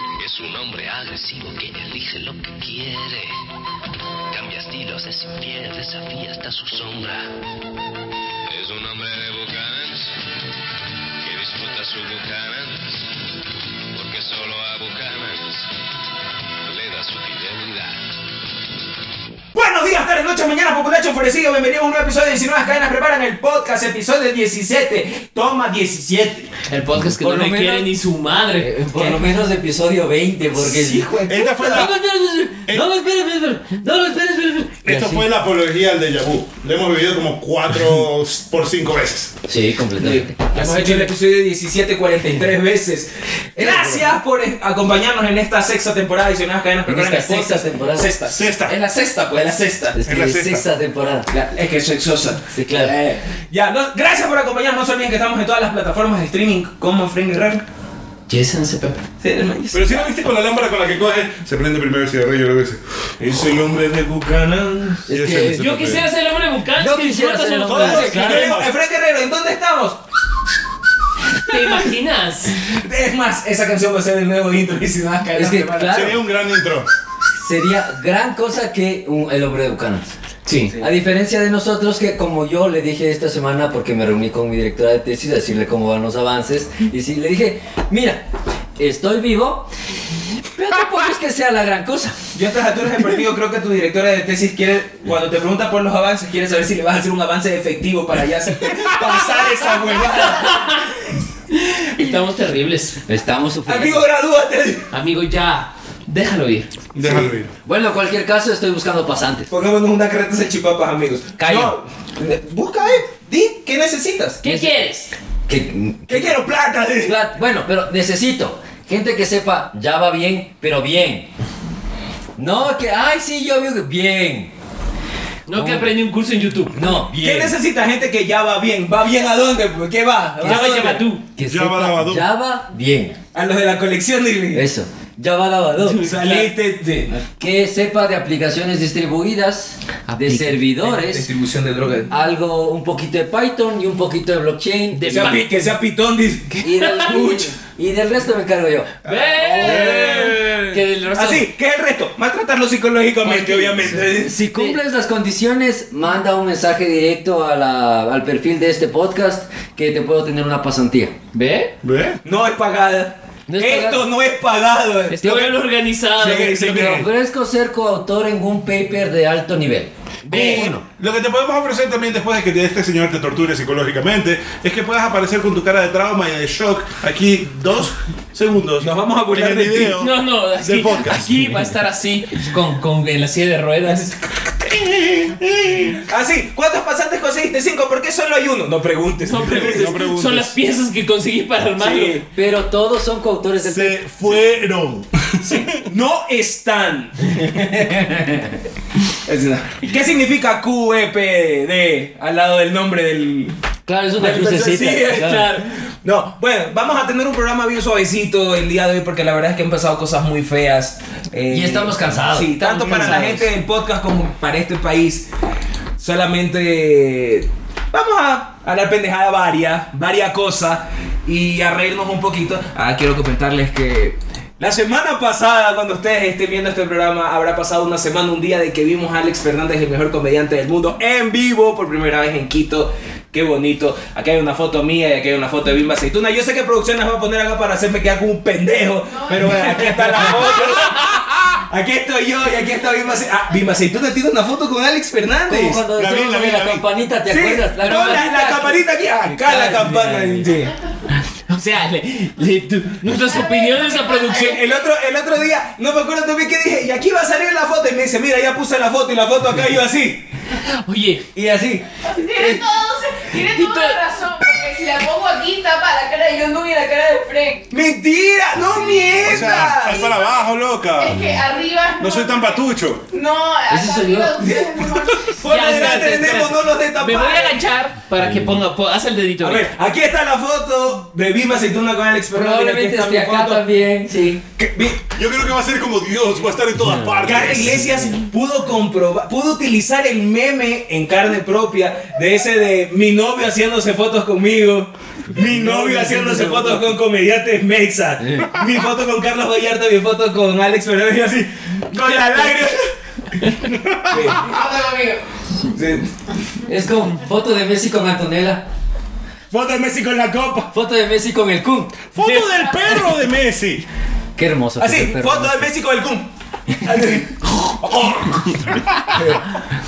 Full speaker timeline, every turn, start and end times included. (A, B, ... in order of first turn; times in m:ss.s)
0:00.2-0:03.4 A
0:04.3-0:07.4 A
0:08.5-0:10.2 A
0:11.2-0:13.0 A
0:13.9-0:15.7 A
0:16.6-0:18.0 A
0:19.5-0:26.5 B
0:26.7-0:29.2 C
0:27.1-0:27.9 D
0:28.6-0:35.3 D
0:30.6-0:31.9 B
0:31.3-0:32.0 E
0:34.8-0:39.3 E
0:39.5-0:41.1 D
0:40.0-0:50.0 B
0:43.6-0:44.0 D
0:43.7-0:44.0 E
0:46.9-0:48.1 D
0:48.3-0:48.8 E
0:50.0-0:51.3 D
0:50.0-0:50.7 E
0:51.3-0:57.6 B
0:52.5-0:53.0 D
0:58.3-0:59.0 C
0:59.2-1:00.1 B
0:59.7-1:02.8 E
1:03.2-1:05.1 B
1:05.1-1:05.6 D
1:05.1-1:06.0 E
1:05.4-1:08.2 C
1:06.8-1:08.6 D
1:07.7-1:08.7 E
1:07.7-1:10.0 B
1:11.4-1:12.6 C
1:11.5-1:11.8 B
1:12.6-1:16.1 B
1:15.4-1:16.2 D
1:15.9-1:16.9 E
1:17.4-1:20.1 D
1:20.5-1:20.8 C
1:20.8-1:28.3 D
1:28.8-1:29.7 D
1:30.4-1:32.2 D
1:32.3-1:40.7 B
1:40.2-1:40.9 C
1:41.5-1:43.0 C
1:43.1-1:44.1 D
1:43.7-1:44.9 B
1:44.9-1:46.7 C
1:46.9-1:47.5 E
1:47.0-1:49.5 D
1:49.5-1:54.4 B
1:54.4-1:55.1 C
1:54.4-1:54.8 D
1:55.5-1:56.4 D
1:56.1-1:57.2 B
1:57.0-2:01.3 D
2:02.4-2:04.5 D
2:05.5-2:06.8 C
2:05.5-2:05.9 D
2:06.7-2:07.6 D
2:07.1-2:11.0 B
2:10.4-2:13.2 D
2:10.4-2:11.2 C
2:11.4-2:12.2 E
2:13.3-2:14.7 B
2:14.5-2:16.1 D
2:15.8-2:16.5 C
2:16.0-2:17.2 B
2:17.4-2:21.2 D
2:20.1-2:20.6 C
2:20.8-2:22.1 B
2:22.1-2:25.4 D
2:24.9-2:25.5 C
2:25.1-2:27.5 B
2:26.6-2:30.3 D
2:26.7-2:27.1 C
2:29.0-2:31.5 C
2:29.4-2:30.6 B
2:29.6-2:30.5 E
2:31.1-2:34.4 B
2:33.3-2:41.2 D
2:33.6-2:34.0 C
2:41.3-2:41.7 C
2:41.8-2:42.2 E
2:42.2-2:45.5 B
2:43.5-2:44.0 D
2:45.1-2:47.0 C
2:45.2-2:45.5 D
2:46.2-2:47.1 B
2:46.7-2:47.0 E
2:46.7-2:50.8 D
2:50.3-3:01.7 E
2:50.4-2:50.6 C
2:50.4-2:50.7 B
2:58.8-3:00.0 B
3:00.0-3:05.9 C
3:06.0-3:09.9 B
3:09.3-3:12.2 C
3:09.5-3:10.5 E
3:11.8-3:12.3 B
3:12.3-3:14.0 D
3:13.6-3:15.9 E
3:15.5-3:17.7 B
3:17.8-3:18.5 D
3:19.3-3:23.5 B
3:23.9-3:25.5 D
3:24.2-3:35.3 B
3:25.0-3:25.7 C
3:31.4-3:33.2 D
3:32.6-3:33.5 C
3:36.0-4:05.8 B
3:59.1-3:59.5 F
4:05.5-4:08.8 D
4:05.9-4:06.9 E
4:07.3-4:10.7 B
4:07.9-4:08.2 C
4:09.4-4:10.5 C
4:09.5-4:10.2 D
4:11.1-4:14.6 C
4:13.2-4:14.8 F
4:14.3-4:20.3 B
4:20.6-4:21.3 C
4:21.4-4:21.9 D
4:22.1-4:27.7 F
4:23.3-4:24.0 C
4:27.7-4:30.1 B
4:29.2-4:31.2 E
4:29.8-4:30.3 F
4:31.0-4:35.8 F
4:32.0-4:33.0 E
4:33.7-4:34.4 D
4:34.4-4:37.6 B
4:35.4-4:39.7 C
4:39.4-4:43.7 B
4:42.3-4:44.4 D
4:44.6-4:45.1 B
4:45.1-4:48.1 E
4:47.0-4:47.4 D
4:47.2-5:02.9 B
4:55.4-4:56.9 D
4:58.2-4:58.5 D
5:03.6-5:04.3 E
5:04.1-5:04.5 B
5:04.3-5:05.2 F
5:05.7-5:06.1 B
5:06.6-5:08.6 D
5:09.5-5:10.7 B
5:10.7-5:12.2 D
5:12.2-5:13.9 E
5:14.4-5:15.7 D
5:14.8-5:19.6 B
5:18.7-5:19.2 E